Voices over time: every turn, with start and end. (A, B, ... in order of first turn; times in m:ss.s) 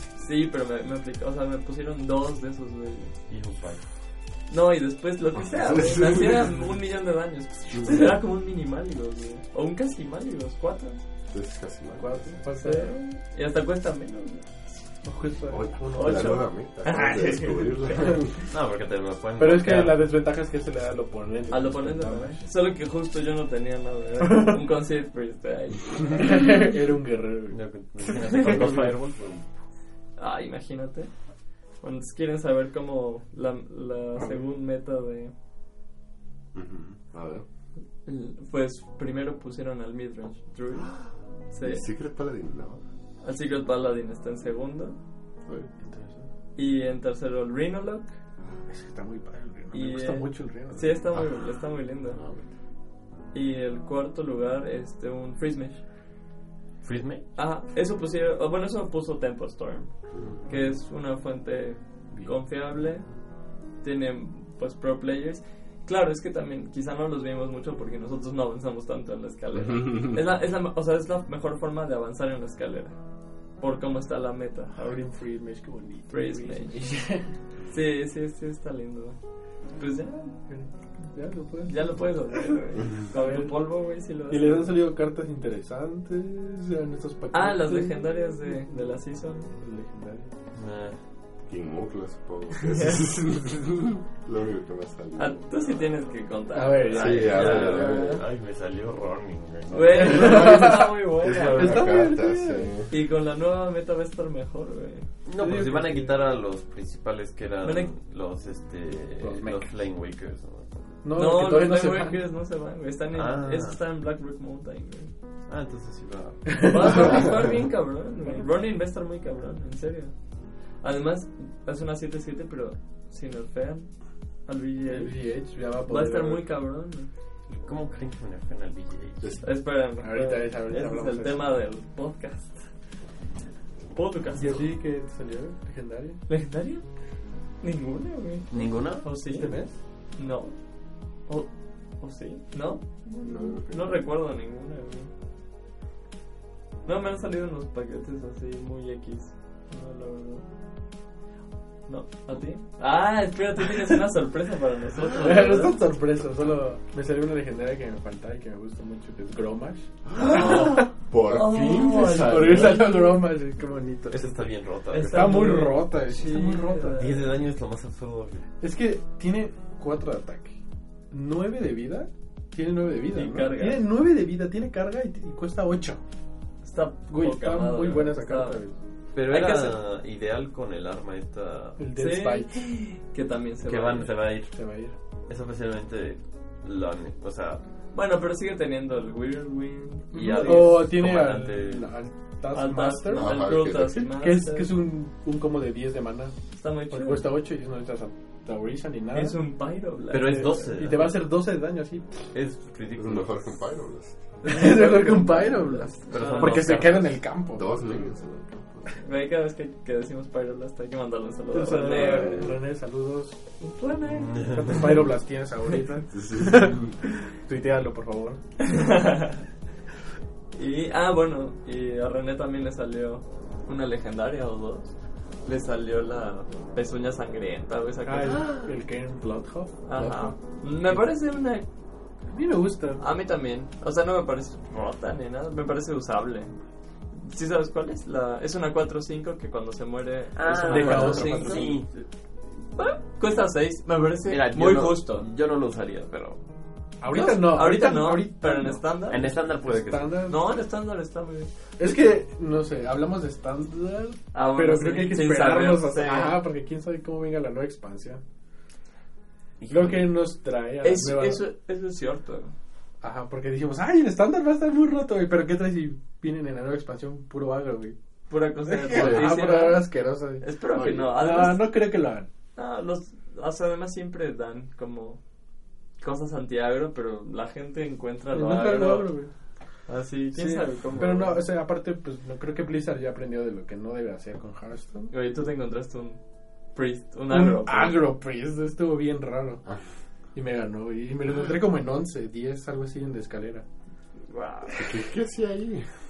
0:00.1-0:03.1 A
0:03.3-0:03.8 B
0:04.5-0:11.0 A
0:05.4-0:06.4 C
0:07.7-0:08.0 C
0:11.3-0:12.4 C
0:12.0-0:13.0 D
0:12.6-0:14.6 A
0:15.0-0:16.5 D
0:15.5-0:18.4 C
0:15.9-0:18.2 A
0:18.5-0:20.1 B
0:19.4-0:22.5 D
0:21.5-0:26.4 A
0:24.2-0:24.6 D
0:26.1-0:28.9 D
0:27.5-0:29.4 B
0:30.2-0:31.1 A
0:31.7-0:35.3 A
0:36.5-0:37.4 C
0:38.0-0:41.8 A
0:41.6-0:42.8 C
0:43.2-0:45.0 A
0:45.4-0:45.7 C
0:45.8-0:46.3 D
0:46.5-0:48.1 A
0:48.7-0:51.0 D
0:49.7-0:52.2 A
0:52.0-0:52.5 C
0:53.3-0:55.8 A
0:56.8-0:57.3 B
0:57.4-1:03.1 A
1:00.1-1:00.4 C
1:03.8-1:14.7 A
1:14.7-1:17.3 D
1:16.1-1:16.8 A
1:17.7-1:19.2 A
1:19.7-1:20.5 A
1:20.5-1:22.1 D
1:21.6-1:24.7 A
1:23.1-1:23.7 D
1:24.3-1:28.9 D
1:27.3-1:29.5 A
1:29.5-1:30.3 D
1:30.5-1:31.0 B
1:31.4-1:35.6 C
1:32.6-1:33.0 A
1:35.2-1:38.2 A
1:36.5-1:37.7 D
1:36.9-1:38.2 C
1:37.2-1:40.7 B
1:39.7-1:41.9 A
1:40.0-1:40.9 D
1:40.1-1:42.9 C
1:41.4-1:42.7 D
1:42.9-1:45.1 A
1:45.2-1:51.0 B
1:45.4-1:46.2 D
1:47.6-1:47.9 A
1:49.2-1:49.7 D
1:51.0-1:52.2 D
1:51.1-1:55.1 A
1:53.1-1:53.8 B
1:55.5-1:57.4 B
1:56.6-2:00.1 A
1:56.6-1:57.2 D
2:00.8-2:05.2 A
2:04.9-2:06.4 D
2:05.8-2:07.1 A
2:07.5-2:09.3 B
2:09.2-2:09.4 C
2:09.4-2:12.7 A
2:10.0-2:11.6 D
2:13.9-2:14.6 A
2:14.4-2:16.2 D
2:16.3-2:16.8 A
2:17.6-2:19.5 A
2:18.5-2:19.0 B
2:19.3-2:19.7 D
2:20.2-2:20.6 A
2:21.2-2:25.1 A
2:23.2-2:24.0 C
2:26.8-2:30.4 A
2:31.9-2:35.8 A
2:35.2-2:40.9 D
2:40.1-2:42.8 C
2:40.2-2:43.1 A
2:41.7-2:44.4 D
2:44.1-2:45.6 B
2:44.9-2:47.3 A
2:45.0-2:47.0 D
2:47.0-2:48.5 B
2:48.6-2:50.6 D
2:51.1-2:56.0 D
2:53.1-2:53.8 A
2:56.6-2:58.6 A
2:57.1-2:58.7 D
2:59.1-3:01.8 B
2:59.2-2:59.8 A
3:01.8-3:02.6 D
3:01.9-3:04.1 A
3:03.6-3:04.6 B
3:04.5-3:04.9 D
3:05.3-3:07.6 B
3:07.9-3:10.8 A
3:10.1-3:11.9 B
3:10.3-3:16.4 D
3:12.5-3:14.7 A
3:13.1-3:14.0 C
3:16.5-3:17.3 A
3:16.9-3:19.4 D
3:19.1-3:20.6 A
3:20.1-3:21.2 B
3:20.2-3:22.2 D
3:22.3-3:23.5 B
3:22.9-3:24.4 C
3:24.4-3:26.8 A
3:24.4-3:27.8 D
3:26.1-3:27.2 B
3:27.5-3:29.0 C
3:29.0-3:32.6 A
3:31.5-3:33.4 D
3:32.0-3:32.4 C
3:33.6-3:34.9 A
3:34.1-3:34.9 B
3:34.4-3:38.7 D
3:36.1-3:36.9 C
3:38.6-3:39.4 A
3:40.5-3:48.6 A
3:48.0-3:51.0 D
3:49.8-3:51.6 A
3:52.3-3:53.0 D
3:53.0-3:56.5 A
3:57.1-4:02.1 A
4:00.4-4:01.9 B
4:00.6-4:01.8 D
4:02.6-4:05.2 A
4:04.3-4:06.4 B
4:07.0-4:10.4 D
4:07.1-4:09.3 A
4:09.1-4:10.1 B
4:10.3-4:11.5 A
4:11.8-4:18.2 D
4:14.3-4:16.4 A
4:19.6-4:20.1 B
4:19.7-4:21.4 D
4:20.8-4:22.5 A
4:23.0-4:28.0 D
4:28.3-4:29.9 A
4:28.6-4:30.4 D
4:28.9-4:29.4 C
4:30.4-4:31.7 A
4:30.7-4:31.2 C
4:31.1-4:32.3 D
4:32.6-4:35.2 A
4:36.0-4:39.1 A
4:38.3-4:39.3 D
4:39.9-4:41.4 A
4:40.3-4:45.1 D
4:45.1-4:46.2 A
4:46.7-4:48.0 A
4:47.3-4:49.6 D
4:50.3-4:53.6 D
4:54.3-4:54.9 A
4:54.8-4:55.9 C